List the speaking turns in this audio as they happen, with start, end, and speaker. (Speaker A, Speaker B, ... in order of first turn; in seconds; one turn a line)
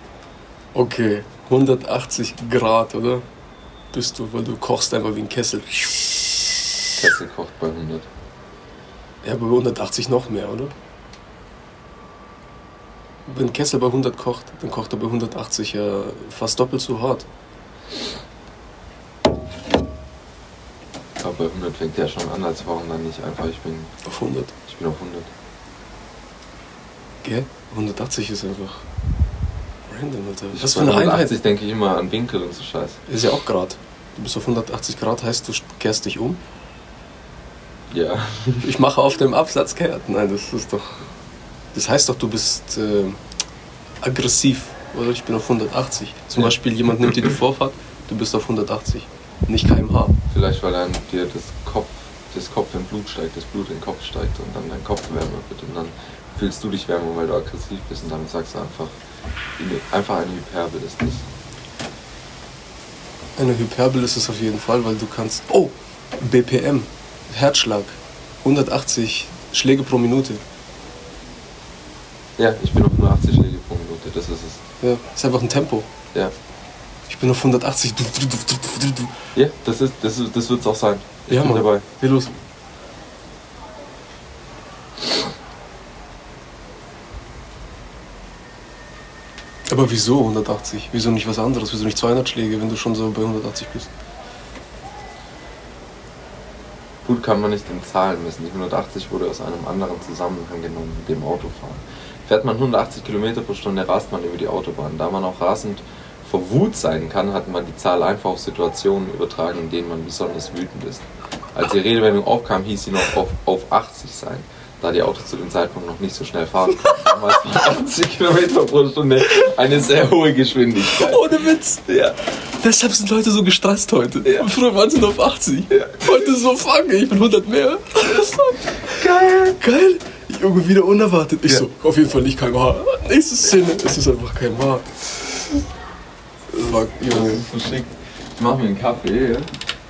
Speaker A: 0.7-3.2
Speaker A: 3.9-5.8
Speaker B: 7.0-8.1
Speaker A: 9.2-10.7
Speaker A: 13.3-17.3
Speaker B: 21.2-23.9
Speaker A: 24.0-24.5
Speaker B: 24.6-25.3
Speaker A: 27.2-28.8
Speaker A: 29.9-31.4
Speaker B: 30.5-33.0
Speaker A: 33.1-36.4
Speaker B: 37.9-38.7
Speaker A: 38.6-41.1
Speaker A: 41.7-43.2
Speaker A: 44.0-50.2
Speaker B: 46.4-47.4
Speaker B: 50.3-59.0
Speaker B: 59.6-61.3
Speaker A: 63.4-70.4
Speaker B: 72.4-74.6
Speaker A: 74.8-75.9
Speaker A: 77.1-79.1
Speaker B: 79.3-81.8
Speaker A: 81.3-82.3
Speaker A: 89.7-93.9
Speaker B: 97.0-121.3
Speaker A: 120.8-128.8
Speaker B: 125.7-126.0
Speaker B: 128.9-129.6
Speaker A: 129.6-134.9
Speaker A: 136.5-137.4
Speaker B: 137.0-139.5